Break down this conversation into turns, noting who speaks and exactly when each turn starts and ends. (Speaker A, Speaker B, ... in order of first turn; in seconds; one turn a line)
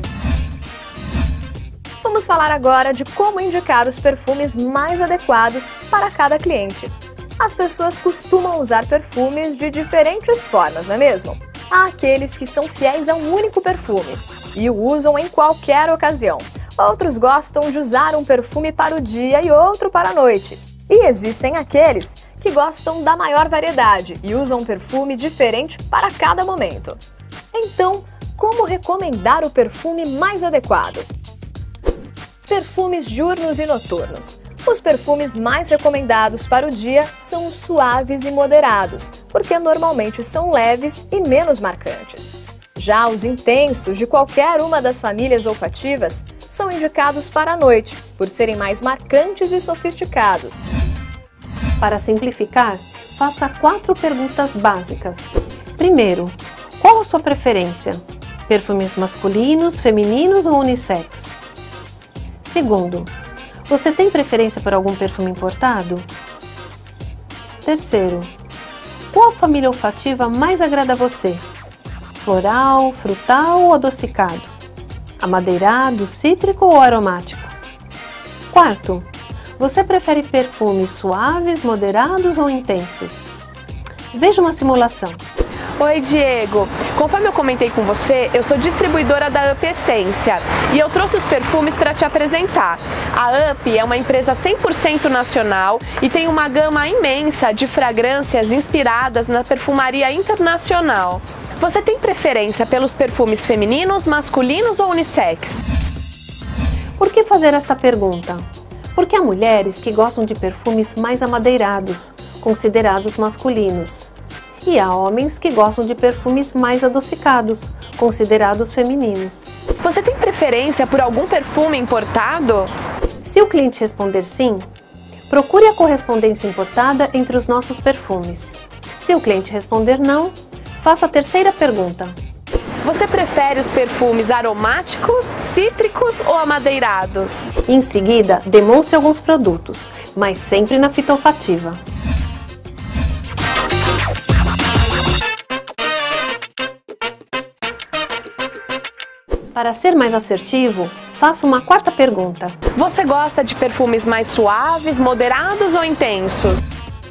Speaker A: 2.0-27.0
Speaker A: 27.5-31.1
Speaker A: 32.5-50.7
Speaker B: 51.8-61.4
Speaker B: 62.4-63.1
Speaker B: 63.7-66.1
Speaker B: 67.6-68.3
Speaker B: 69.1-71.4
Speaker B: 72.2-74.5
Speaker B: 75.2-77.5
Speaker B: 78.5-83.3
Speaker B: 84.1-85.2
Speaker C: 85.8-105.6
Speaker B: 107.0-119.5
Speaker C: 119.8-122.7
Speaker B: 123.2-124.7
Speaker B: 125.3-132.2
Speaker C: 132.8-137.5
Speaker B: 137.7-141.8
Speaker B: 149.5-152.6
Speaker C: 152.8-156.6